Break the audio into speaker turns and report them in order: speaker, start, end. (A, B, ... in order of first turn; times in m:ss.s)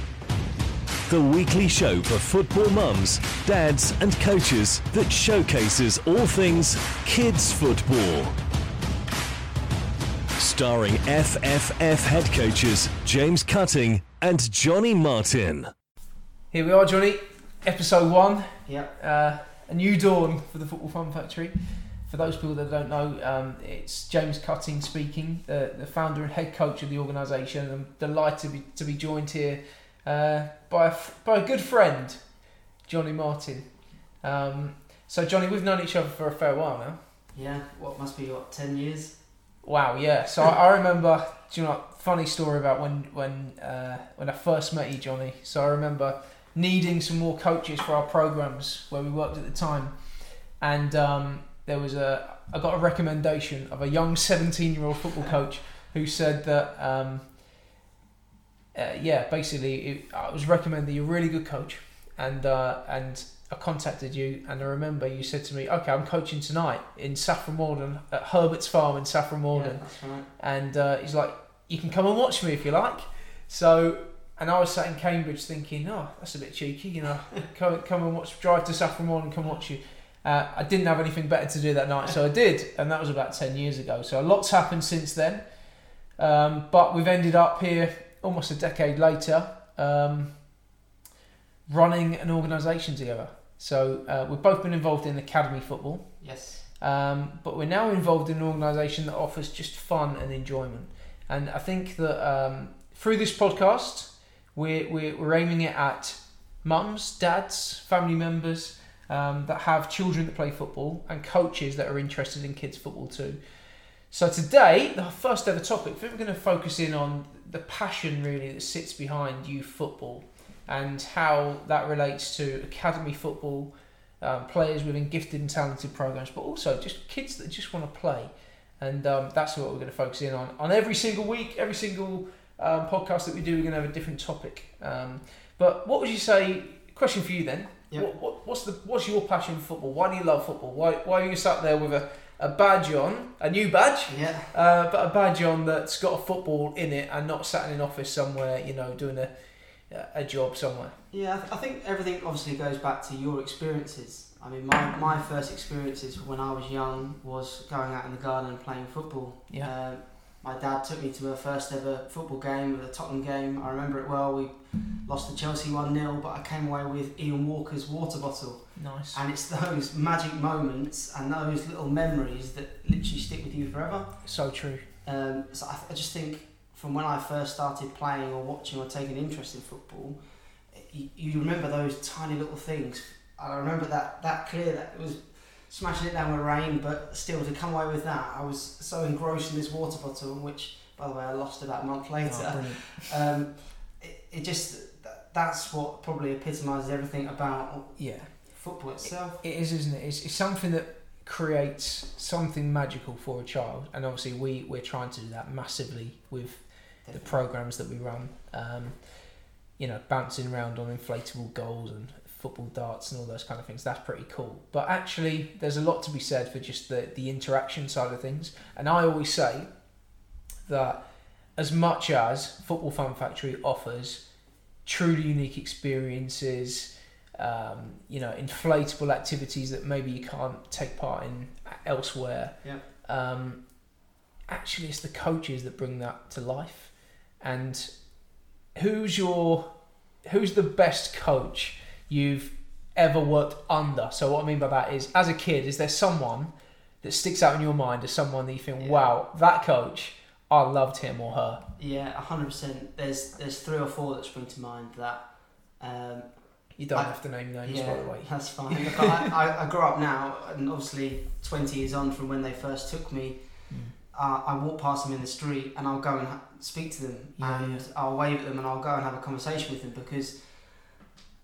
0:01.1-0:08.3 A
0:10.4-0:15.7 A
0:16.5-0:37.0 B
0:18.6-0:18.9 C
0:37.3-0:39.2 C
0:39.6-0:57.4 B
0:58.7-1:30.5 B
1:09.5-1:10.3 C
1:31.7-1:53.4 B
1:36.2-1:36.6 C
1:54.1-2:29.3 B
2:24.1-2:24.5 C
2:29.9-2:31.0 B
2:31.1-2:54.4 C
2:48.8-2:49.2 B
2:54.2-2:54.9 B
2:55.0-3:19.4 C
3:12.2-3:13.1 B
3:18.0-3:39.7 B
3:27.0-3:27.4 C
3:40.6-3:53.9 B
3:54.5-3:58.2 B
3:58.7-4:11.6 B
4:08.8-4:09.1 C
4:11.8-4:30.9 C
4:16.8-4:19.2 B
4:23.7-4:23.9 B
4:27.4-4:27.8 B